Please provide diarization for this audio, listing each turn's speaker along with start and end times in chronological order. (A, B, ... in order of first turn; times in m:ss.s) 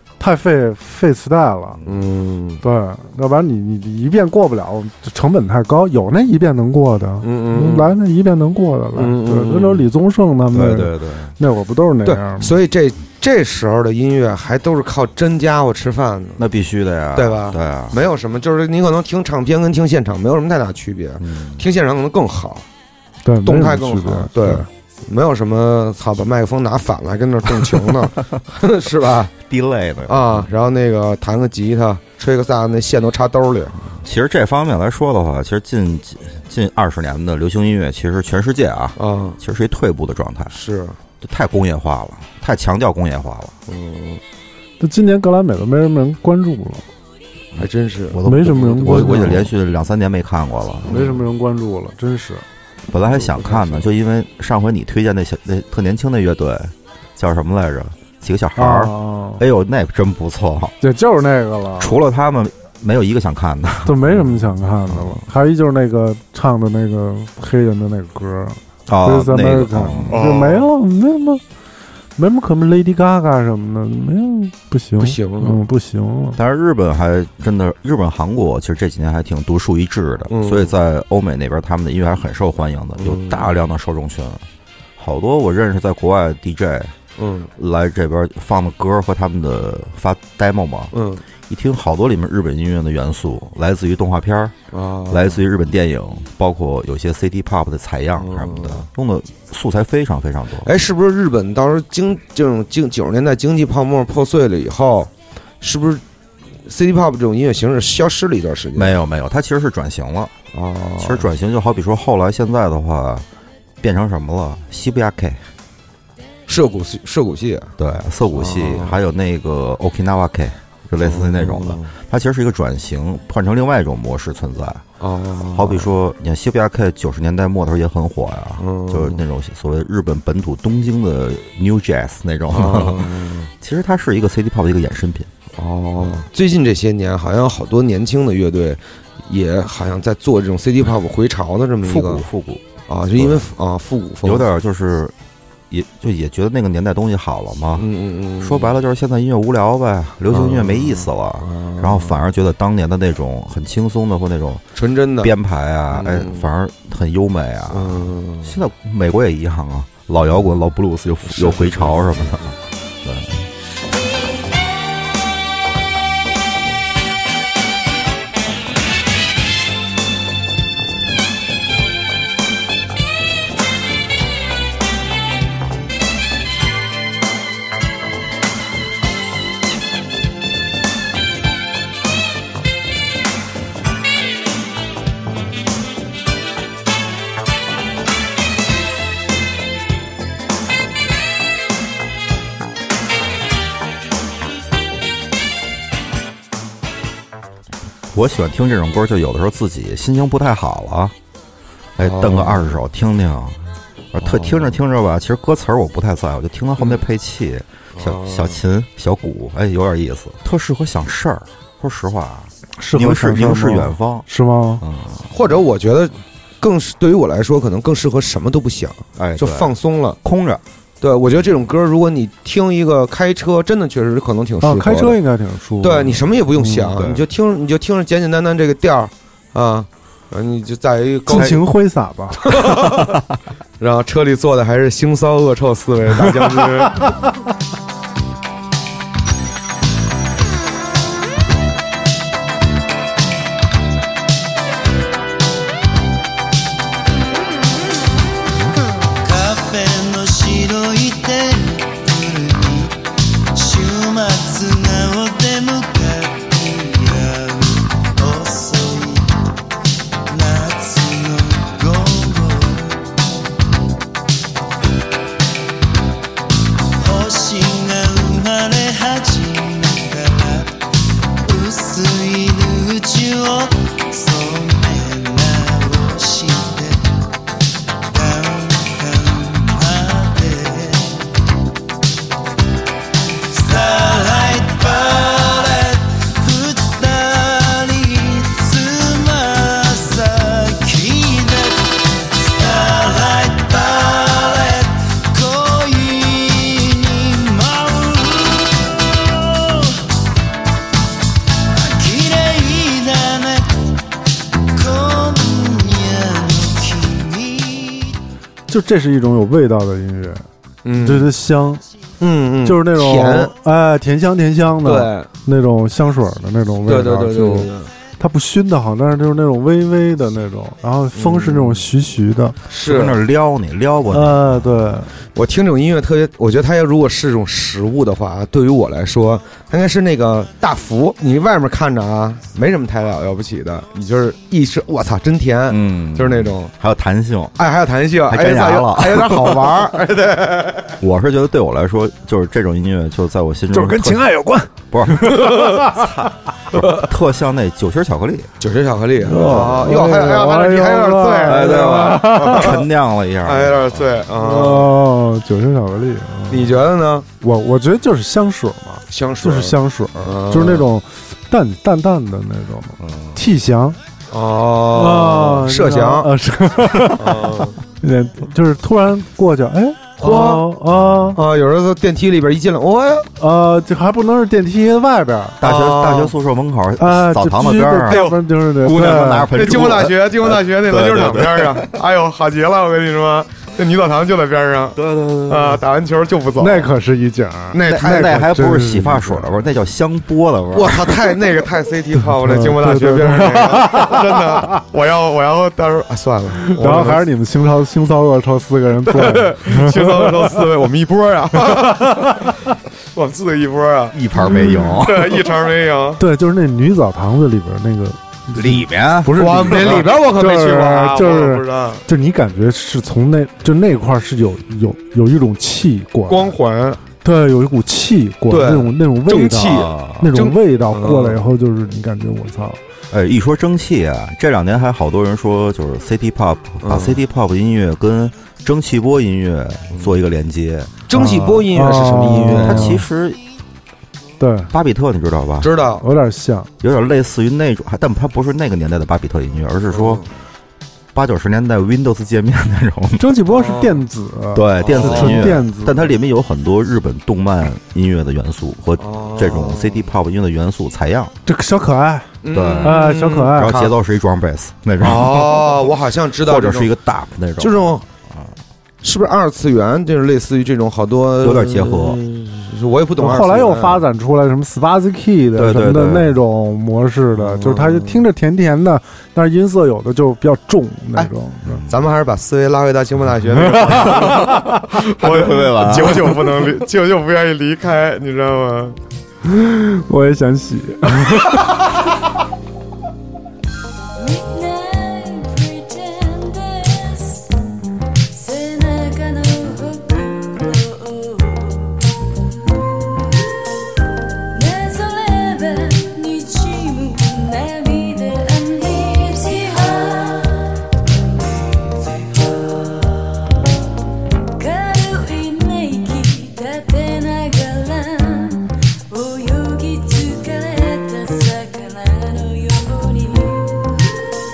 0:00.2-0:01.8 A
0:01.8-0:02.0 B
0:01.8-0:02.6 C
0:02.6-0:12.5 A
0:07.2-0:07.9 C
0:08.9-0:09.8 C
0:10.5-0:11.4 B
0:12.0-0:16.4 C
0:16.4-0:18.0 B
0:17.1-0:22.6 C
0:21.2-0:21.6 B
0:23.2-0:24.7 A
0:23.4-0:29.3 C
0:29.5-0:30.5 B
0:30.1-0:33.9 C
0:34.0-0:40.6 B
0:39.0-0:39.4 C
0:40.5-0:41.0 C
0:41.2-0:43.6 B
0:43.7-0:44.2 C
0:44.8-0:46.9 A
0:47.5-0:51.0 B
0:47.6-0:49.4 C
0:48.2-0:49.5 A
0:50.9-0:51.2 C
0:50.9-0:52.4 A
0:52.9-1:00.7 B
0:53.1-0:53.8 C
0:58.6-0:59.4 A
1:00.8-1:02.0 A
1:01.8-1:04.2 B
1:03.8-1:11.4 A
1:08.9-1:10.2 B
1:10.1-1:10.7 C
1:12.2-1:16.4 A
1:15.0-1:15.6 C
1:16.4-1:24.4 B
1:20.3-1:20.7 C
1:23.0-1:23.5 C
1:25.0-1:26.9 B
1:27.2-1:27.5 C
1:27.6-1:30.9 B
1:30.9-1:31.2 C
1:31.5-1:34.5 B
1:34.7-1:35.4 C
1:35.1-1:40.7 B
1:38.2-1:38.8 C
1:40.6-1:46.0 C
1:46.6-1:48.9 C
1:48.7-1:50.3 B
1:50.5-1:51.2 C
1:51.0-1:53.2 B
1:53.8-1:55.4 B
1:56.5-1:57.7 C
1:57.8-2:04.8 B
1:58.3-1:59.0 C
2:01.0-2:01.9 C
2:05.0-2:05.9 C
2:05.5-2:15.3 B
2:08.6-2:09.2 C
2:12.5-2:13.5 C
2:15.6-2:22.2 C
2:16.0-2:16.2 B
2:21.8-2:23.5 B
2:22.9-2:24.4 C
2:24.2-2:25.1 B
2:25.7-2:27.9 B
2:27.8-2:28.7 C
2:28.4-2:34.6 B
2:30.3-2:32.2 C
2:34.8-2:35.3 C
2:35.2-2:43.5 B
2:35.9-2:36.4 C
2:37.7-2:38.5 C
2:41.3-2:42.5 C
3:18.1-3:21.1 B
3:22.0-3:23.6 B
3:22.0-3:22.8 C
3:24.1-3:34.3 B
3:24.2-3:24.7 C
3:28.0-3:28.6 C
3:32.8-3:34.8 A
3:34.8-3:35.3 B
3:35.3-3:40.2 C
3:39.2-3:40.6 B
3:41.0-3:45.2 C
3:44.6-3:46.9 A
3:45.8-3:51.6 C
3:46.9-3:47.2 B
3:51.3-3:52.5 A
3:51.3-3:51.6 B
3:52.4-3:53.2 C
3:52.8-3:53.2 B
3:53.8-3:57.2 C
4:09.2-4:12.9 D
4:13.6-4:17.5 D
4:18.3-4:19.0 D
4:27.1-4:28.2 D
4:28.8-4:29.6 D
4:31.6-4:36.9 D
4:38.2-4:40.9 D
4:43.6-4:51.8 D
4:52.5-4:58.6 D
5:02.0-5:03.6 D
5:04.8-5:07.9 D
5:08.7-5:10.4 A
5:10.8-5:11.3 C
5:11.0-5:11.8 A
5:12.2-5:13.5 C
5:12.6-5:22.6 A
5:14.8-5:15.3 C
5:16.8-5:17.9 C
5:21.1-5:21.9 C
5:22.7-5:23.2 C
5:22.8-5:24.9 B
5:24.1-5:25.1 A
5:25.3-5:36.7 C
5:35.7-5:37.6 B
5:37.6-5:40.9 C
5:38.3-5:39.8 B
5:41.0-5:44.3 B
5:43.7-5:46.1 A
5:44.9-5:48.5 B
5:48.6-5:52.8 C
5:49.2-5:52.7 A
5:51.4-5:54.1 B
5:53.4-5:54.9 C
5:54.4-5:56.8 A
5:56.5-5:57.3 C
5:57.4-6:04.0 A
5:59.1-6:00.9 C
6:03.0-6:03.4 B
6:04.3-6:06.3 C
6:04.9-6:11.4 A
6:07.1-6:07.8 C
6:10.2-6:10.6 C
6:10.9-6:11.4 B
6:11.3-6:13.3 C
6:13.4-6:15.6 A
6:15.6-6:18.3 B
6:15.6-6:16.3 C
6:17.0-6:19.5 A
6:18.1-6:18.4 C
6:18.8-6:21.9 B
6:19.5-6:26.9 C
6:24.9-6:25.8 B
6:26.6-6:29.5 A
6:27.7-6:28.4 C
6:27.8-6:31.2 B
6:30.7-6:37.2 C
6:32.4-6:34.8 A
6:36.7-6:40.6 A
6:39.1-6:42.5 C
6:43.1-6:46.2 C
6:44.1-6:45.5 B
6:44.5-6:44.9 A
6:46.2-6:56.5 A
6:48.5-6:50.1 B
6:49.3-6:52.0 C
6:56.3-6:57.0 C
6:57.2-7:02.8 A
6:58.5-7:01.4 C
6:59.7-7:00.3 B
7:03.1-7:11.0 B
7:06.8-7:07.2 C
7:11.1-7:13.0 C
7:11.1-7:13.0 A
7:12.6-7:13.4 B
7:14.4-7:14.7 A
7:14.7-7:15.7 B
7:15.6-7:16.0 C
7:16.0-7:16.7 A
7:16.8-7:20.2 B
7:19.9-7:20.3 C
7:21.1-7:23.4 B
7:23.2-7:26.1 A
7:23.5-7:24.0 C
7:24.5-7:31.3 B
7:24.8-7:25.6 C
7:29.0-7:30.0 C
7:31.4-7:33.9 A
7:32.4-7:33.9 C
7:32.5-7:38.5 B
7:35.0-7:36.9 C
7:37.6-7:38.0 C
7:39.0-7:44.0 C
7:41.4-7:42.2 B
7:43.2-7:51.8 A
7:45.5-7:46.3 B
7:47.3-7:48.2 C
7:51.7-7:52.0 B
7:51.9-7:59.0 C
7:53.8-7:54.7 A
7:54.9-7:56.7 B
7:59.5-8:01.7 A
8:04.2-8:07.4 E
8:08.3-8:11.8 E
8:14.6-8:20.4 E
8:24.6-8:28.6 E
8:29.1-8:33.9 E